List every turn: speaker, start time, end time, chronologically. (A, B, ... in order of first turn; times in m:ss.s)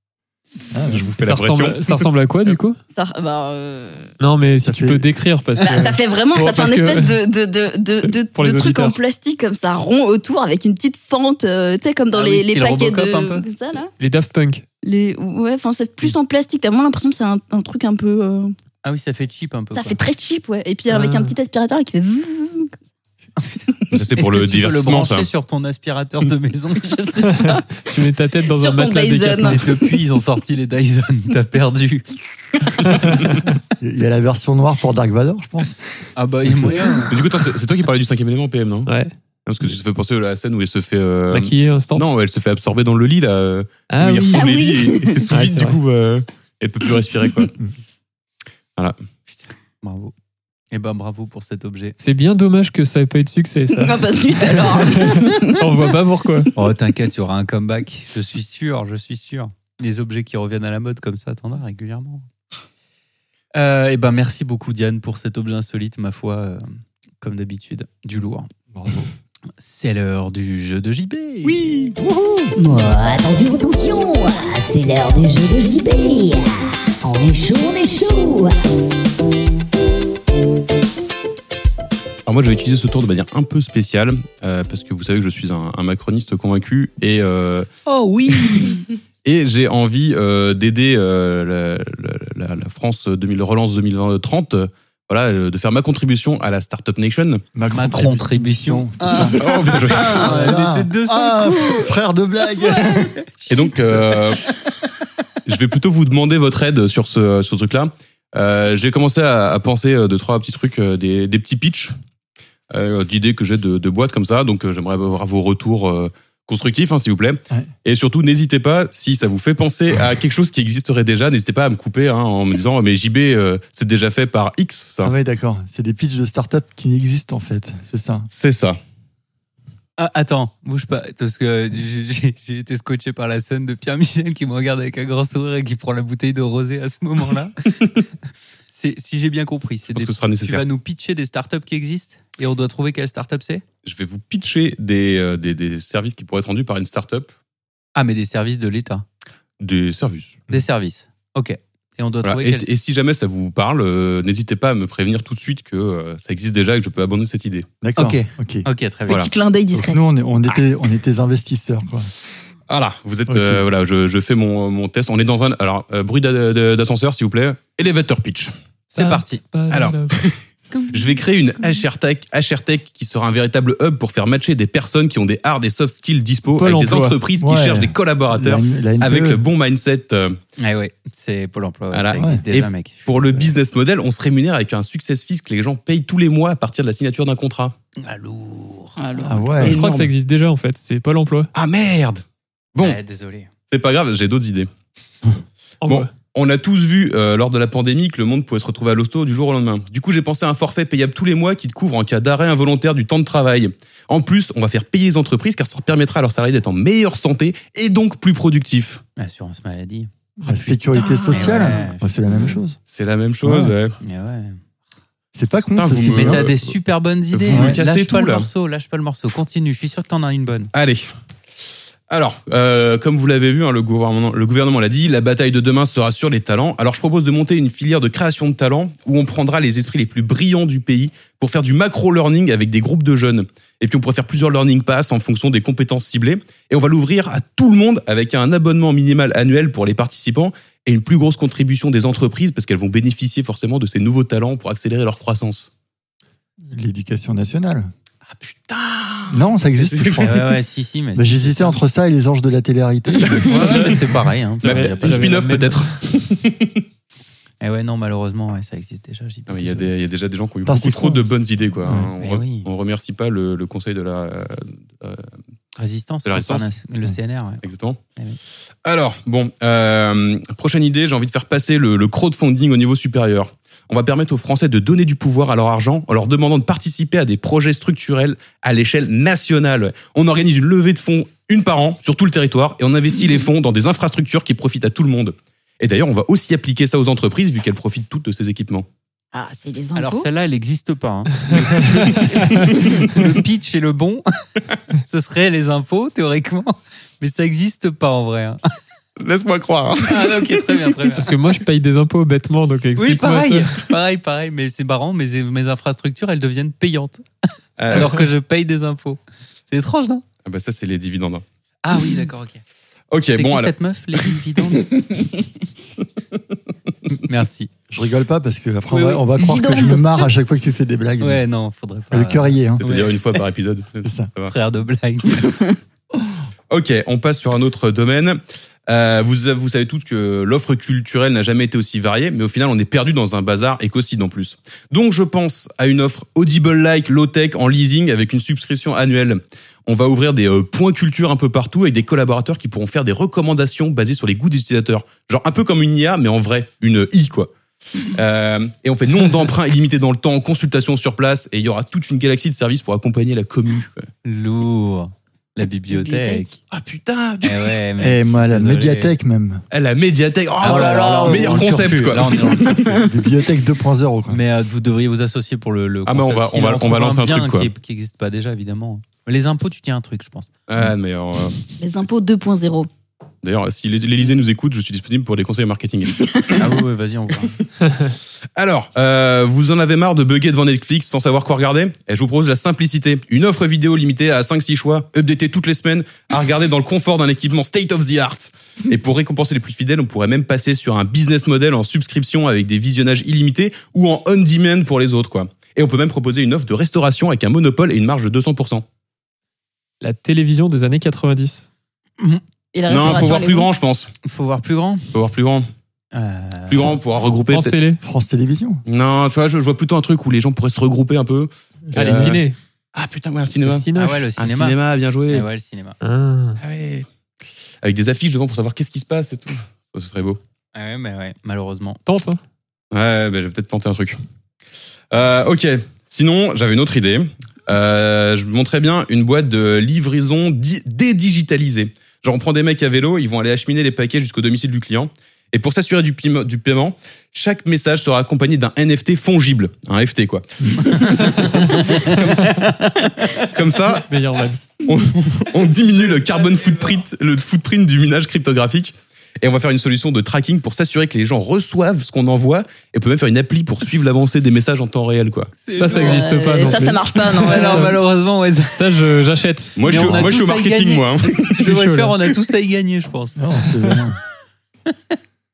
0:00.7-0:01.1 A
0:00.9-0:02.1 B
0:01.2-0:02.8 C
0:02.9-0:04.1 D
0:04.2-0:07.2 C
0:04.6-0:05.1 A
0:05.6-0:13.9 D
0:08.0-0:09.0 C
0:12.1-0:13.5 E
0:14.0-0:14.6 C
0:14.8-0:18.5 D
0:18.8-0:20.0 E
0:19.7-0:22.7 D
0:20.9-0:21.3 C
0:23.9-0:25.3 B
0:24.1-0:27.2 E
0:27.1-0:27.9 D
0:27.3-0:29.6 C
0:28.5-0:29.7 D
0:29.4-0:32.9 E
0:32.9-0:33.2 C
0:33.8-0:35.8 A
0:36.2-0:37.2 E
0:36.4-0:36.9 A
0:37.1-0:38.9 B
0:38.9-0:39.1 C
0:39.4-0:47.5 B
0:41.3-0:42.1 C
0:43.9-0:44.5 C
0:44.3-0:45.3 D
0:45.3-0:45.8 C
0:49.3-0:50.1 E
0:50.7-0:52.0 E
0:52.0-0:56.5 C
0:53.7-0:55.7 D
0:56.5-1:02.3 E
1:03.5-1:06.6 E
1:07.2-1:08.5 E
1:08.7-1:09.1 A
1:09.6-1:11.6 E
1:11.5-1:12.0 B
1:11.9-1:12.4 A
1:12.6-1:18.6 F
1:22.2-1:27.7 B
1:27.8-1:28.8 E
1:29.2-1:37.4 B
1:37.5-1:39.5 A
1:37.7-1:41.9 E
1:39.2-1:40.3 B
1:40.0-1:43.1 A
1:42.5-1:44.4 E
1:43.5-1:44.4 B
1:45.4-1:51.9 B
1:52.7-2:05.1 B
2:05.0-2:08.3 A
2:08.3-2:08.8 B
2:10.0-2:18.0 E
2:18.7-2:23.6 E
2:19.9-2:20.6 B
2:23.8-2:27.3 B
2:27.9-2:29.0 E
2:29.6-2:30.4 B
2:30.5-2:32.7 E
2:32.2-2:37.7 B
2:37.8-2:38.6 A
2:38.0-2:39.3 E
2:39.1-2:40.0 D
2:39.7-2:42.1 A
2:42.7-2:48.5 B
2:43.3-2:43.6 A
2:48.9-2:49.4 E
2:49.0-2:50.2 C
2:49.7-3:00.4 B
2:56.6-2:57.2 C
2:57.4-2:59.4 A
3:00.6-3:03.6 E
3:01.9-3:07.7 B
3:08.0-3:09.0 E
3:09.0-3:09.8 D
3:09.2-3:09.8 A
3:09.6-3:11.5 C
3:11.5-3:12.2 B
3:12.8-3:13.5 E
3:13.7-3:14.7 B
3:15.8-3:16.1 C
3:15.8-3:29.0 B
3:29.2-3:32.6 E
3:30.4-3:32.8 A
3:32.8-3:34.0 B
3:33.4-3:33.7 A
3:34.0-3:34.6 E
3:35.3-3:36.5 A
3:35.8-3:36.7 B
3:36.1-3:40.7 E
3:37.3-3:38.5 B
3:37.5-3:37.8 A
3:40.7-3:41.1 B
3:42.1-4:05.7 B
4:06.7-4:07.9 A
4:08.3-4:10.4 B
4:09.3-4:10.6 A
4:10.2-4:11.8 E
4:11.2-4:13.7 A
4:13.4-4:15.4 E
4:13.7-4:13.9 C
4:14.6-4:16.0 C
4:14.6-4:16.8 B
4:17.6-4:19.9 E
4:19.5-4:25.3 B
4:20.6-4:21.3 A
4:21.8-4:22.1 A
4:22.2-4:22.7 E
4:25.8-4:27.6 E
4:26.2-4:26.7 B
4:27.6-4:28.0 B
4:28.8-4:48.8 B
4:49.3-4:50.3 D
4:49.9-4:54.2 E
4:55.0-4:58.6 E
4:59.2-5:00.8 B
5:00.0-5:01.3 E
5:01.2-5:03.8 C
5:03.0-5:07.2 E
5:07.8-5:08.3 B
5:07.9-5:10.2 E
5:10.4-5:11.4 B
5:11.8-5:12.6 E
5:13.1-5:14.3 B
5:13.3-5:14.9 E
5:17.1-5:17.7 E
5:17.9-5:21.4 A
5:19.3-5:20.3 D
5:21.2-5:23.4 E
5:22.1-5:22.8 A
5:22.8-5:24.5 B
5:24.0-5:24.3 A
5:24.5-5:25.6 E
5:26.7-5:47.5 B
5:48.0-5:54.0 B
5:54.2-5:56.6 E
5:55.9-5:56.4 D
5:56.7-5:57.8 B
5:57.4-5:59.2 E
5:58.0-5:59.6 A
5:59.7-6:03.0 B
6:00.6-6:01.8 D
6:00.6-6:03.0 E
6:02.7-6:03.0 D
6:02.9-6:04.4 A
6:04.3-6:10.5 E
6:06.0-6:07.7 B
6:10.7-6:11.5 B
6:11.8-6:12.9 D
6:13.4-6:16.2 B
6:16.6-6:17.6 E
6:18.6-6:38.8 B
6:40.0-6:41.6 C
6:42.7-6:43.7 D
6:42.9-6:44.1 B
6:44.2-6:45.1 E
6:45.1-6:45.6 B
6:46.1-6:47.0 E
6:46.7-6:47.8 B
6:47.5-6:48.0 C
6:48.0-6:48.8 A
6:48.8-6:52.4 B
6:51.9-6:52.4 A
6:51.9-6:52.6 C
6:52.9-6:55.5 B
6:53.6-6:54.2 C
6:53.9-6:56.0 E
6:56.0-6:56.6 C
6:56.6-6:57.1 B
6:57.8-7:00.4 B
7:00.7-7:02.0 E
7:02.0-7:02.4 C
7:02.9-7:04.2 B
7:05.1-7:22.5 B
7:20.8-7:23.5 E
7:23.5-7:24.1 B
7:24.0-7:24.6 C
7:24.8-7:35.5 B
7:25.7-7:27.0 E
7:35.6-7:36.3 E
7:35.7-7:38.0 C
7:35.9-7:37.9 D
7:37.4-7:39.1 E
7:38.8-7:39.8 C
7:39.8-7:41.6 B
7:39.8-7:43.7 E
7:41.6-7:42.2 C
7:43.4-7:44.2 A
7:44.9-7:45.1 E